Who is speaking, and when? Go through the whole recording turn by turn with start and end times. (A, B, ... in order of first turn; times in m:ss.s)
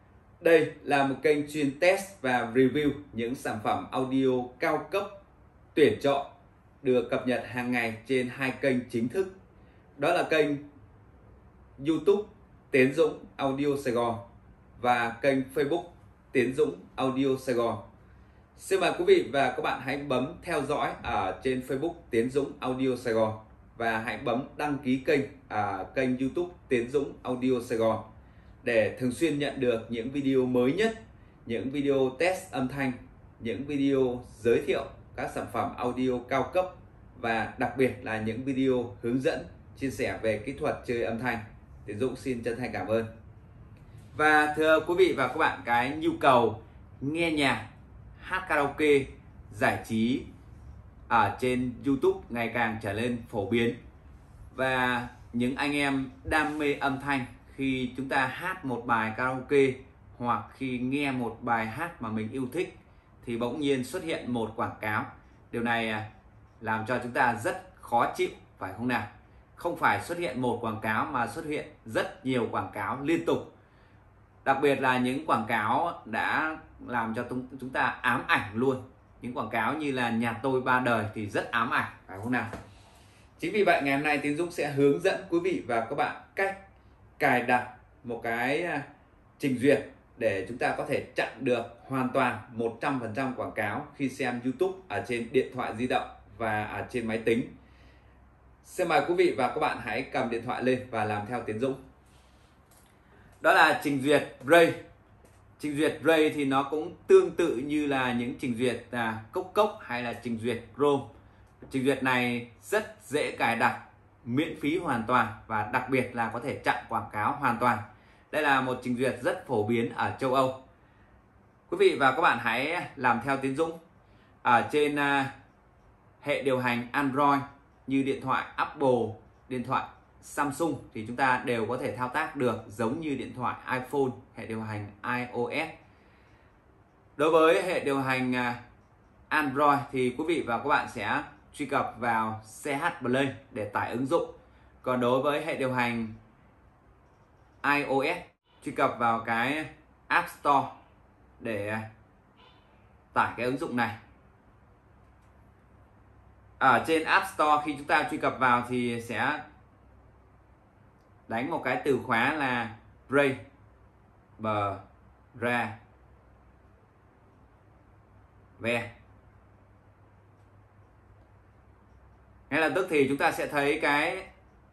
0:00.4-0:05.1 A
0:05.7-0:06.3 A
0:06.8-0:09.3 A
0:10.0-0:10.6 A
0:11.8-0:14.2 A
0:14.8-0:17.8 A
0:18.6-0:28.0 A
0:28.6-0:43.1 A
0:44.1-0:47.6 A
0:48.2-0:50.2 A
0:51.1-0:53.8 A
0:54.5-1:06.1 A
1:06.6-1:13.5 A
1:14.4-1:22.5 A
1:23.4-1:26.6 A
1:27.2-1:28.9 A
1:29.4-1:37.5 A
1:38.6-1:41.8 A
1:43.4-1:44.8 A
1:45.6-1:51.1 A
1:51.7-2:00.6 A
2:01.7-2:03.8 A
2:04.4-2:05.3 A
2:06.2-2:15.7 A
2:17.2-2:18.6 A
2:19.3-2:24.3 A
2:24.8-2:26.1 A
2:27.6-2:30.7 A
2:31.4-2:31.8 A
2:33.1-2:34.0 A
2:36.6-2:39.4 A
2:41.3-2:43.4 A
2:44.4-2:44.8 A
2:45.3-2:45.8 A
2:48.6-2:48.9 A
2:52.5-2:54.3 A